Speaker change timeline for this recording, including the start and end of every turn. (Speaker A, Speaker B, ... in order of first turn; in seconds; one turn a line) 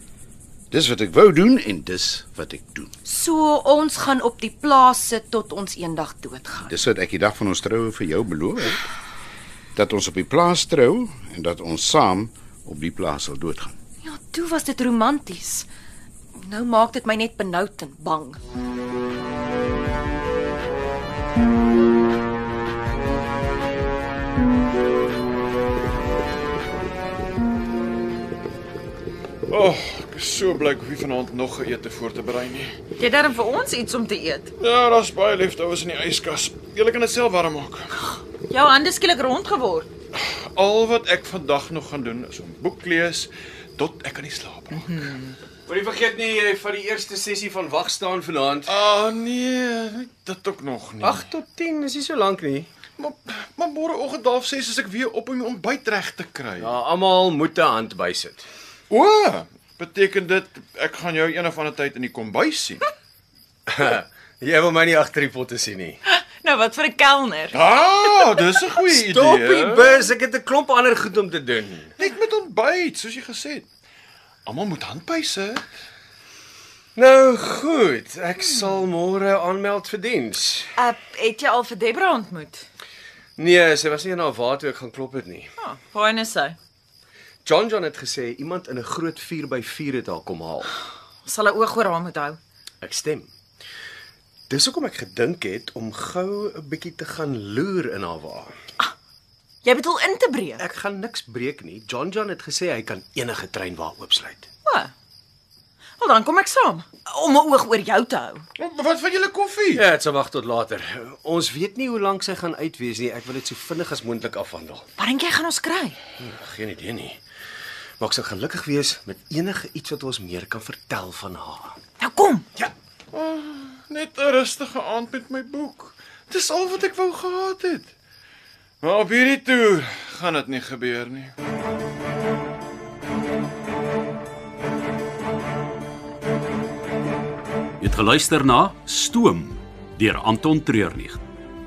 Speaker A: 0.7-2.9
Speaker B: 3.0-6.7
Speaker A: 6.6-8.8
Speaker A: 9.8-13.8
Speaker B: 14.0-15.7
Speaker B: 16.4-18.4
Speaker C: 29.5-32.8
Speaker D: 33.0-34.5
Speaker C: 34.6-38.1
Speaker D: 38.5-39.9
Speaker C: 40.1-45.4
Speaker E: 45.7-48.7
Speaker C: 48.6-51.3
Speaker E: 51.0-52.7
Speaker C: 53.0-56.7
Speaker E: 56.6-58.5
Speaker C: 58.9-62.9
Speaker E: 63.7-66.0
Speaker D: 66.1-67.6
Speaker C: 67.5-70.0
Speaker E: 68.9-71.9
Speaker C: 72.0-73.7
Speaker C: 74.5-75.6
Speaker E: 77.0-80.7
Speaker D: 80.8-82.7
Speaker E: 83.4-85.5
Speaker D: 85.6-86.6
Speaker E: 87.5-90.7
Speaker D: 91.2-92.4
Speaker E: 92.8-93.3
Speaker E: 94.5-98.5
Speaker D: 99.6-100.6
Speaker E: 100.6-104.5
Speaker D: 104.7-104.9
Speaker D: 106.0-108.5
Speaker C: 108.6-109.9
Speaker E: 109.7-114.8
Speaker D: 115.0-116.0
Speaker E: 116.2-117.2
Speaker E: 118.0-121.8
Speaker D: 122.0-122.5
Speaker C: 123.1-127.9
Speaker C: 128.8-131.3
Speaker F: 137.8-141.2